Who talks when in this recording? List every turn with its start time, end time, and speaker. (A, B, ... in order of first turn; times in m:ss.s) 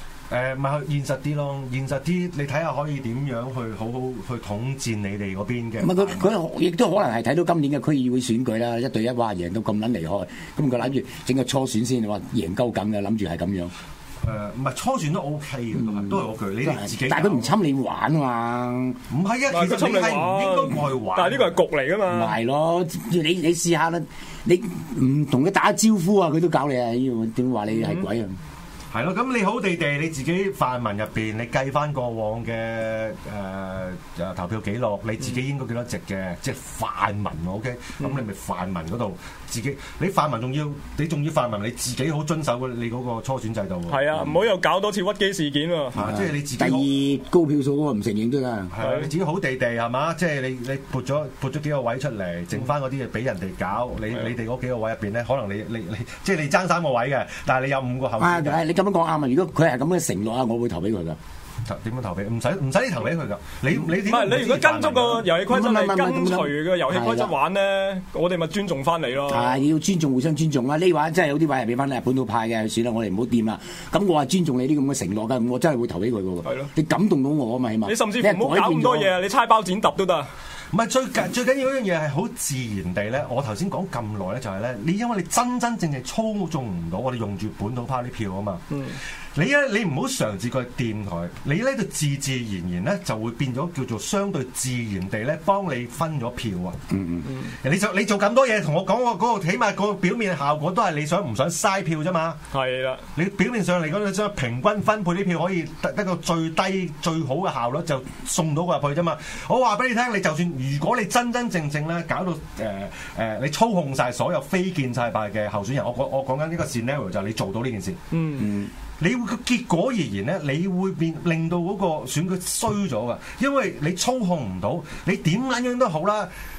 0:00.3-0:06.3 A
0:05.8-0:13.7 B
0:14.2-0:17.6 A
0:15.8-0:19.0 B
0:19.1-0:21.6 A
0:19.5-0:22.4 C
0:22.1-0:28.4 B
0:27.7-0:28.1 C
0:28.9-0:44.3 A
0:43.9-0:46.0 C
0:45.9-0:46.9 A
0:46.0-0:48.7 B
0:48.7-0:58.6 A
0:48.8-0:49.1 C
0:58.2-1:01.2 B
1:01.6-1:05.3 A
1:04.0-1:09.6 C
1:05.5-1:07.3 B
1:09.3-1:19.1 B
1:16.4-1:16.7 C
1:17.8-1:20.3 C
1:20.7-1:28.6 A
1:28.7-1:29.0 C
1:29.4-1:36.8 A
1:36.9-1:37.4 B
1:37.6-1:42.4 A
1:42.5-1:43.0 C
1:43.2-1:58.0 A
1:58.1-1:58.5 C
1:58.4-1:58.7 B
1:59.0-2:06.3 A